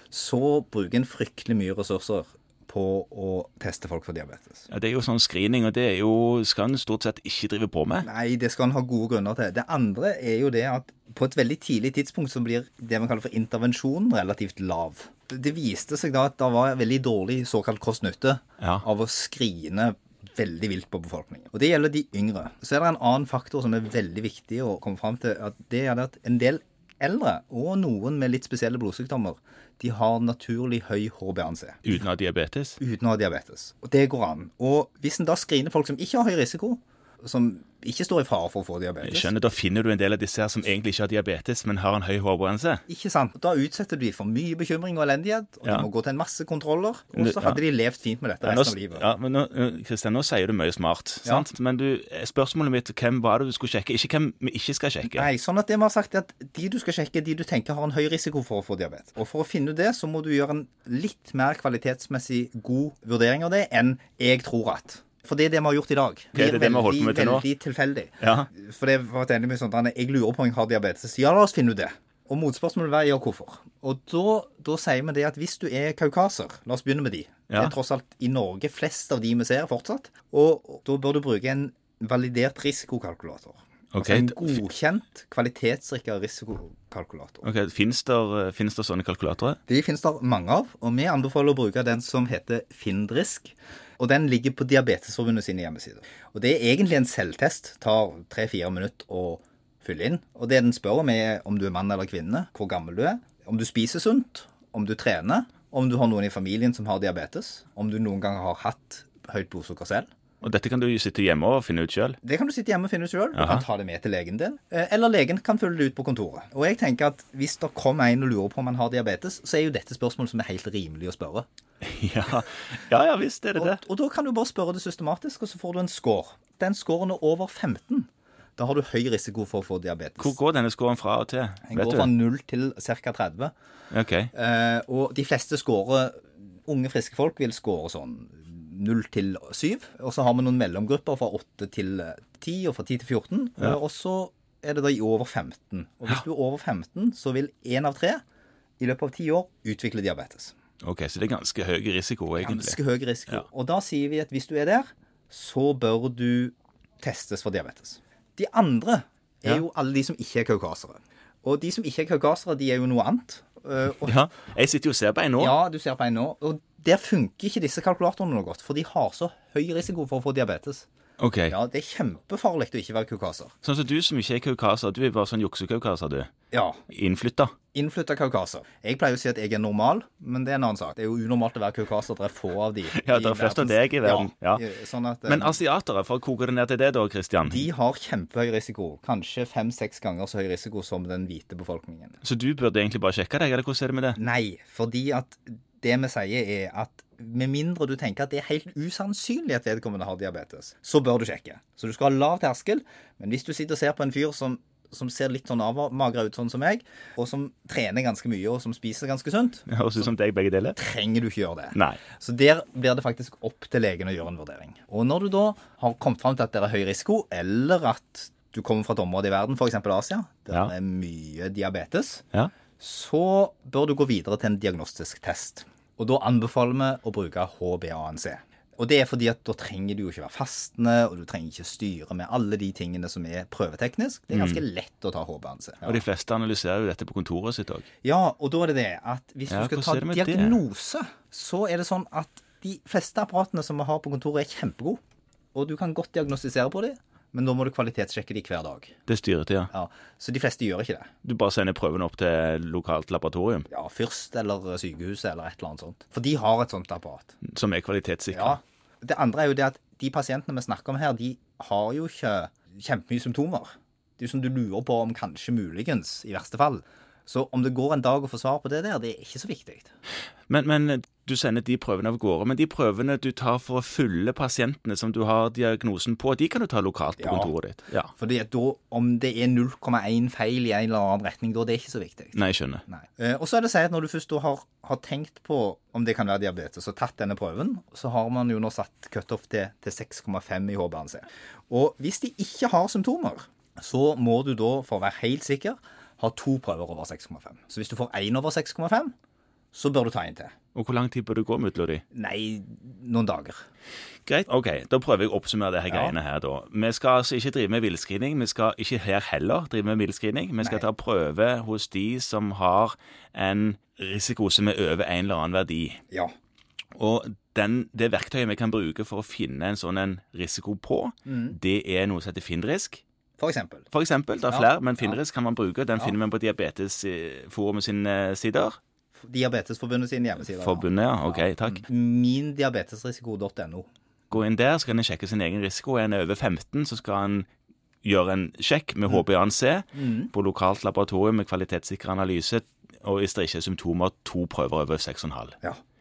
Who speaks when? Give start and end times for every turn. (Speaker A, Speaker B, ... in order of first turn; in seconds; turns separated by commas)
Speaker A: 0.1-4.7, Speaker B: 4.7-8.1, Speaker A: 8.0-31.9, Speaker B: 31.8-32.8, Speaker A: 32.8-39.3, Speaker B: 39.0-42.8, Speaker A: 42.9-49.1, Speaker B: 47.1-47.6, Speaker B: 48.4-55.3, Speaker A: 55.1-87.5, Speaker B: 66.3-67.4, Speaker B: 68.2-68.5, Speaker B: 83.9-84.6, Speaker B: 87.4-89.6, Speaker A: 89.7-110.1, Speaker B: 110.4-112.2, Speaker A: 112.2-121.5, Speaker B: 113.3-113.6, Speaker B: 121.8-123.8, Speaker A: 123.6-130.3, Speaker B: 130.2-132.1, Speaker A: 131.7-133.5, Speaker B: 133.9-134.3, Speaker A: 134.3-148.2, Speaker A: 148.8-150.5, Speaker B: 150.8-152.8, Speaker A: 152.4-164.2, Speaker B: 164.0-165.5, Speaker A: 165.4-170.9, Speaker B: 171.2-171.5, Speaker A: 171.5-173.5, Speaker B: 173.6-176.3, Speaker A: 176.5-176.8, Speaker B: 176.9-177.5, Speaker A: 177.7-185.6, Speaker B: 182.9-184.6, Speaker B: 185.3-187.7, Speaker A: 187.4-192.2, Speaker B: 192.2-194.2, Speaker A: 194.2-209.7, Speaker B: 209.7-210.8, Speaker A: 210.8-222.2, Speaker B: 211.7-212.0, Speaker A: 222.8-236.0, Speaker B: 234.3-234.6, Speaker B: 235.8-237.8, Speaker A: 238.0-245.0, Speaker B: 239.5-240.6, Speaker A: 245.5-248.9, Speaker B: 249.1-249.7, Speaker A: 249.7-251.1, Speaker B: 251.2-253.7, Speaker A: 253.7-257.4, Speaker B: 257.4-258.6, Speaker A: 258.3-269.9, Speaker B: 270.5-278.1, Speaker A: 277.2-277.5, Speaker A: 278.1-299.1, Speaker B: 282.3-282.8, Speaker A: 299.7-300.5, Speaker B: 300.7-302.0, Speaker A: 302.1-303.6, Speaker B: 304.2-316.0, Speaker A: 305.9-306.1, Speaker B: 316.9-323.0, Speaker A: 321.2-321.6, Speaker A: 323.4-323.9, Speaker B: 323.9-328.8, Speaker A: 324.5-325.2, Speaker A: 329.2-333.9, Speaker B: 330.4-331.9, Speaker B: 334.3-337.5, Speaker B: 338.0-345.6, Speaker A: 339.9-340.3